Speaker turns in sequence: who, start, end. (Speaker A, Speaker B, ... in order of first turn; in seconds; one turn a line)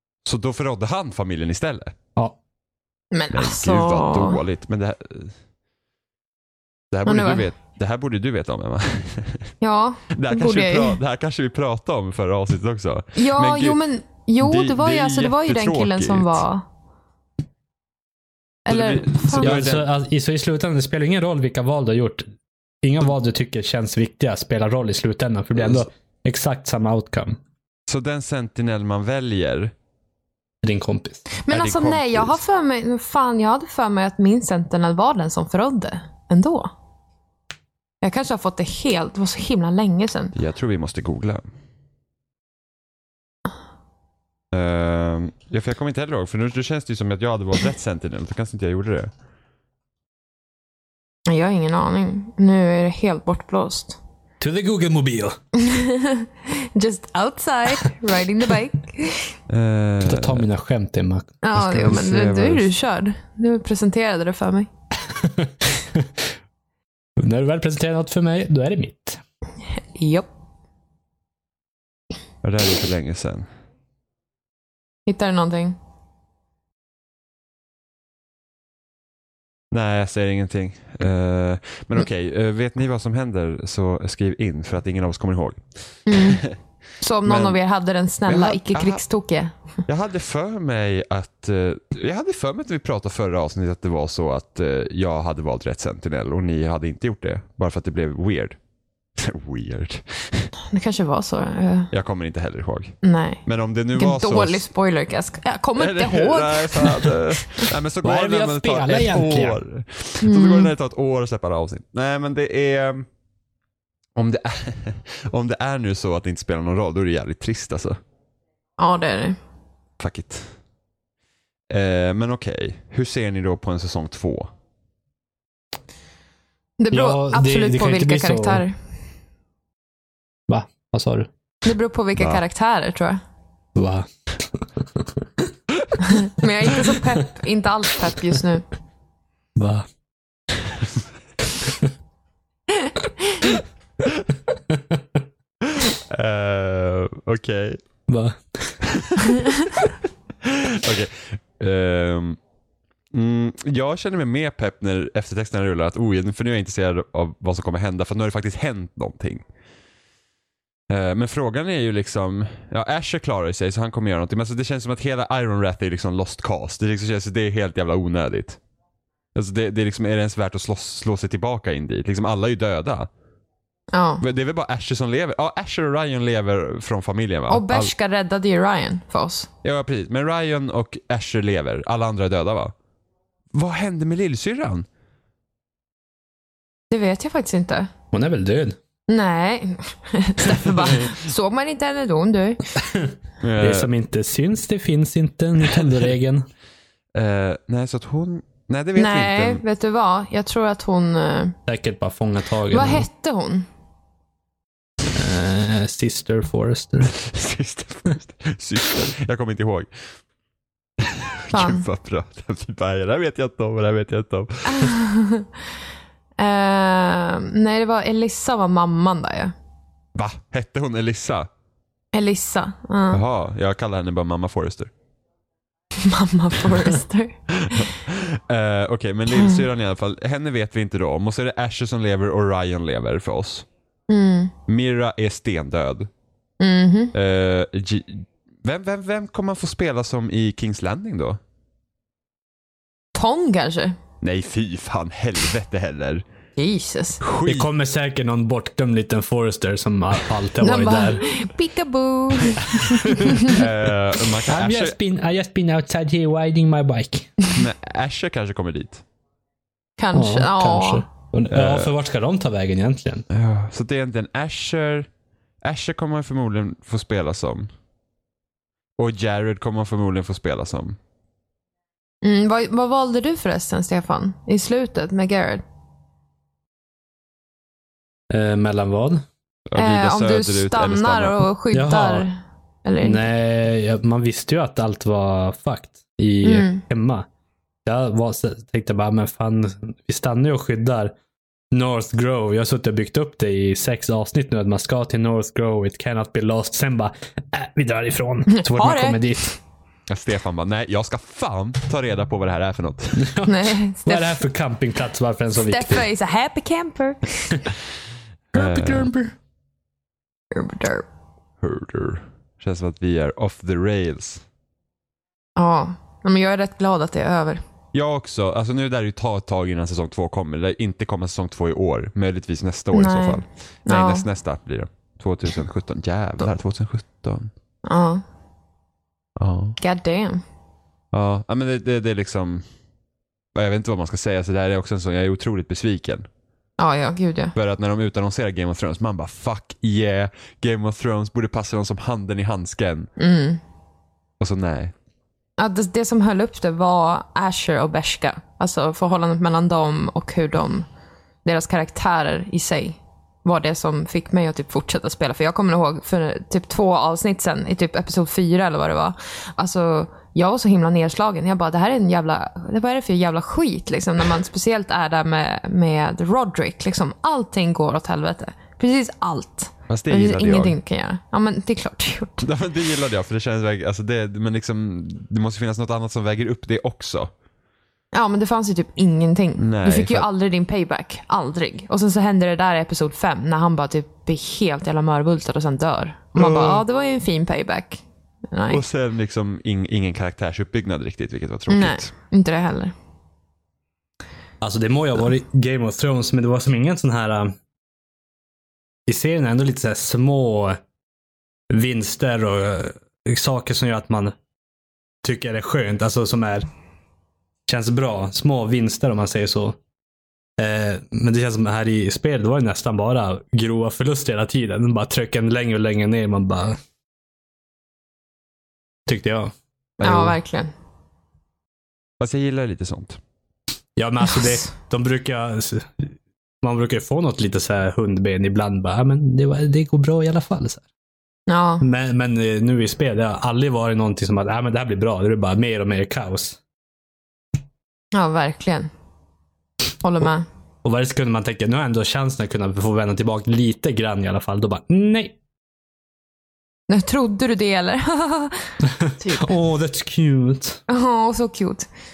Speaker A: 0.2-1.9
Speaker B: 3.1-4.4
Speaker A: 3.3-5.3
Speaker A: 6.9-9.5
Speaker B: 7.1-7.5
Speaker B: 9.6-11.0
Speaker A: 10.1-13.8
Speaker B: 13.2-16.6
Speaker A: 14.4-16.4
Speaker B: 18.7-19.7
Speaker A: 18.7-19.9
Speaker C: 19.4-22.2
Speaker C: 22.8-27.4
Speaker A: 27.9-29.7
Speaker C: 30.6-31.3
Speaker B: 31.4-36.7
Speaker A: 31.5-32.4
Speaker B: 38.0-40.4
Speaker A: 40.4-41.4
Speaker A: 44.5-49.1
Speaker B: 51.3-54.0
Speaker C: 54.4-55.4
Speaker B: 55.5-59.3
Speaker A: 59.5-60.5
Speaker C: 60.0-62.1
Speaker B: 61.4-64.7
Speaker A: 61.7-62.7
Speaker C: 65.2-66.1
Speaker C: 67.2-69.2
Speaker B: 70.0-70.3
Speaker A: 72.4-73.5
Speaker B: 75.1-75.8
Speaker A: 79.7-86.6
Speaker B: 86.1-86.4
Speaker B: 87.0-89.5
Speaker A: 87.2-87.6
Speaker A: 88.3-89.0
Speaker A: 89.9-98.6
Speaker A: 99.2-100.5
Speaker B: 100.7-101.9
Speaker A: 101.9-104.7
Speaker B: 103.0-103.4
Speaker B: 104.0-107.7
Speaker A: 105.8-113.1
Speaker C: 108.0-109.6
Speaker B: 110.2-110.7
Speaker A: 114.2-118.0
Speaker B: 118.8-119.4
Speaker A: 120.0-120.5
Speaker A: 121.7-124.5
Speaker B: 126.8-128.8
Speaker C: 126.9-128.6
Speaker C: 130.5-131.3
Speaker B: 131.6-133.2
Speaker C: 133.8-135.0
Speaker B: 136.0-138.7
Speaker C: 139.6-139.9
Speaker A: 145.6-147.8
Speaker C: 148.1-148.8
Speaker A: 148.8-149.4
Speaker A: 150.4-152.4
Speaker A: 153.1-159.5
Speaker A: 160.9-168.6
Speaker A: 169.3-173.1
Speaker B: 173.9-174.2
Speaker A: 174.2-177.9
Speaker B: 177.5-179.5
Speaker A: 179.6-182.7
Speaker A: 183.5-184.9
Speaker B: 186.9-187.9
Speaker C: 188.1-188.8
Speaker B: 189.1-192.7
Speaker A: 193.4-193.9
Speaker C: 193.6-196.5
Speaker A: 195.7-196.1
Speaker A: 197.1-199.6
Speaker B: 199.0-201.6
Speaker C: 201.7-203.1
Speaker B: 202.7-203.7
Speaker C: 205.1-207.2
Speaker A: 207.2-209.9
Speaker A: 211.0-214.9
Speaker B: 211.5-211.8
Speaker B: 214.7-215.5
Speaker B: 216.4-219.5
Speaker A: 220.2-221.5
Speaker B: 222.1-223.2
Speaker A: 223.1-224.9
Speaker B: 226.0-227.8
Speaker A: 227.5-233.7
Speaker B: 234.1-234.5
Speaker A: 234.7-236.1
Speaker B: 236.6-237.1
Speaker A: 237.1-241.4
Speaker B: 243.2-244.0
Speaker A: 244.2-246.2
Speaker B: 246.6-247.2
Speaker A: 247.2-247.7
Speaker C: 247.5-251.2
Speaker B: 250.6-253.6
Speaker C: 252.7-253.7
Speaker A: 253.3-255.0
Speaker C: 254.5-257.5
Speaker A: 257.5-259.0
Speaker B: 260.0-261.1
Speaker C: 260.1-263.2
Speaker A: 261.5-261.9
Speaker A: 263.3-265.1
Speaker A: 265.6-267.7
Speaker A: 269.0-271.0
Speaker B: 272.2-275.6
Speaker C: 278.3-279.2
Speaker A: 279.7-281.4
Speaker B: 279.8-283.2
Speaker C: 281.7-282.3
Speaker C: 283.0-287.3
Speaker B: 286.4-286.8
Speaker C: 287.9-291.1
Speaker C: 291.7-299.6
Speaker B: 298.5-299.2
Speaker A: 300.1-303.3
Speaker C: 303.2-306.1
Speaker B: 303.4-304.4
Speaker B: 305.6-307.6
Speaker A: 308.5-309.1
Speaker C: 308.5-309.3
Speaker B: 310.5-311.1
Speaker A: 311.6-314.4
Speaker B: 315.6-317.6
Speaker A: 317.9-327.5
Speaker B: 322.9-324.3
Speaker B: 327.9-328.2
Speaker A: 329.4-329.8
Speaker B: 329.8-330.4
Speaker A: 331.1-332.6
Speaker A: 333.5-336.3
Speaker B: 336.8-337.6
Speaker A: 337.6-343.1
Speaker B: 343.2-343.6
Speaker A: 344.4-344.9
Speaker B: 345.6-350.9
Speaker B: 351.4-372.4
Speaker A: 369.9-370.8
Speaker A: 372.4-377.3
Speaker B: 378.1-388.8
Speaker A: 379.6-380.3
Speaker A: 386.4-386.8
Speaker A: 388.7-392.1
Speaker B: 391.7-392.9
Speaker C: 394.6-397.6
Speaker C: 399.1-400.8
Speaker C: 401.7-404.3
Speaker C: 405.2-406.7
Speaker C: 407.7-409.8
Speaker C: 410.6-416.8
Speaker C: 419.1-419.5
Speaker A: 420.0-420.4
Speaker B: 420.0-420.7
Speaker A: 422.2-423.2
Speaker C: 424.0-430.9
Speaker B: 424.3-424.6
Speaker B: 431.5-431.8
Speaker C: 431.8-436.6
Speaker B: 438.1-438.9
Speaker B: 440.0-440.5
Speaker C: 440.8-445.4
Speaker B: 446.9-449.5
Speaker C: 448.9-450.8
Speaker B: 450.9-451.9